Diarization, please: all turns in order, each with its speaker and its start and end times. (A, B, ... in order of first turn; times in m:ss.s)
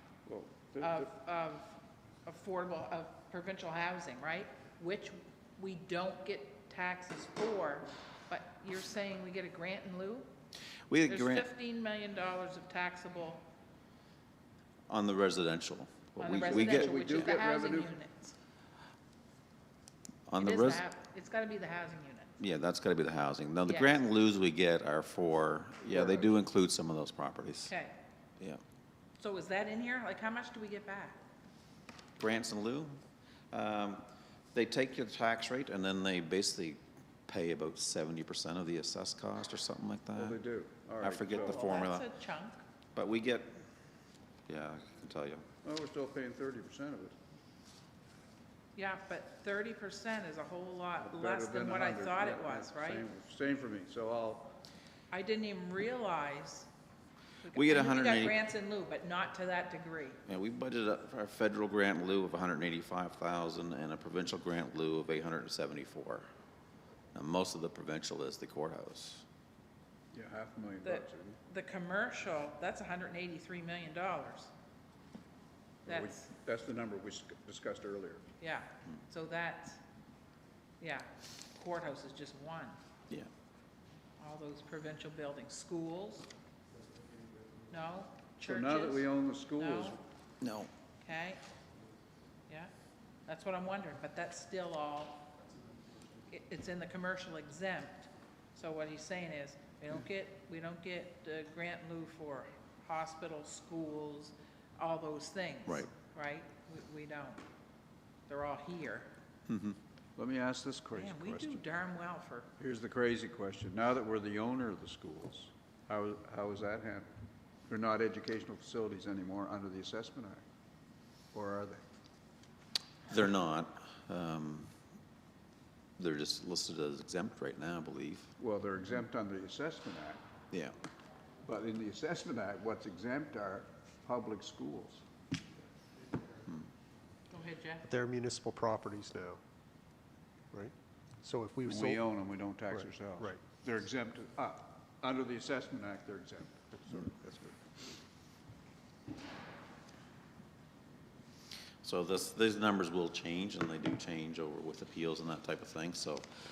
0:00.2-0:01.1 A
0:00.8-0:10.3 B
0:10.9-0:11.5 C
0:11.1-0:13.4 B
0:14.9-0:17.3 C
0:16.2-0:18.3 B
0:16.3-0:17.9 A
0:20.3-0:20.8 C
0:20.4-0:22.3 B
0:22.4-0:27.7 C
0:23.6-0:24.0 B
0:26.0-0:26.2 A
0:27.7-0:27.9 B
0:29.2-0:31.2 B
0:32.2-0:33.0 C
0:33.5-0:40.4 C
0:40.1-0:41.7 A
0:41.0-0:42.0 C
0:41.3-0:42.6 B
0:42.9-0:43.6 C
0:44.5-0:45.4 C
0:45.6-0:47.1 A
0:48.7-0:53.0 B
0:51.0-0:54.6 A
0:55.1-0:56.7 B
0:57.4-1:00.2 B
0:57.5-0:58.4 C
1:00.2-1:06.2 C
1:07.1-1:09.2 C
1:10.1-1:11.4 A
1:10.8-1:14.5 B
1:15.8-1:16.3 B
1:15.8-1:18.3 A
1:18.4-1:19.8 B
1:20.8-1:22.8 B
1:24.2-1:26.3 B
1:27.7-1:29.0 B
1:28.4-1:30.0 A
1:29.6-1:30.0 B
1:30.4-1:30.7 C
1:31.0-1:31.4 B
1:33.2-1:35.3 B
1:36.3-1:47.4 B
1:48.3-1:49.1 B
1:49.5-1:49.8 C
1:50.2-1:51.6 A
1:50.9-1:52.5 B
1:52.6-1:57.1 A
1:57.7-2:00.4 A
2:01.3-2:01.8 A
2:03.1-2:04.7 C
2:06.0-2:08.3 C
2:08.4-2:10.2 A
2:11.4-2:15.0 A
2:17.3-2:17.9 B
2:17.8-2:19.4 D
2:20.5-2:22.0 D
2:21.7-2:27.8 A
2:31.8-2:36.2 C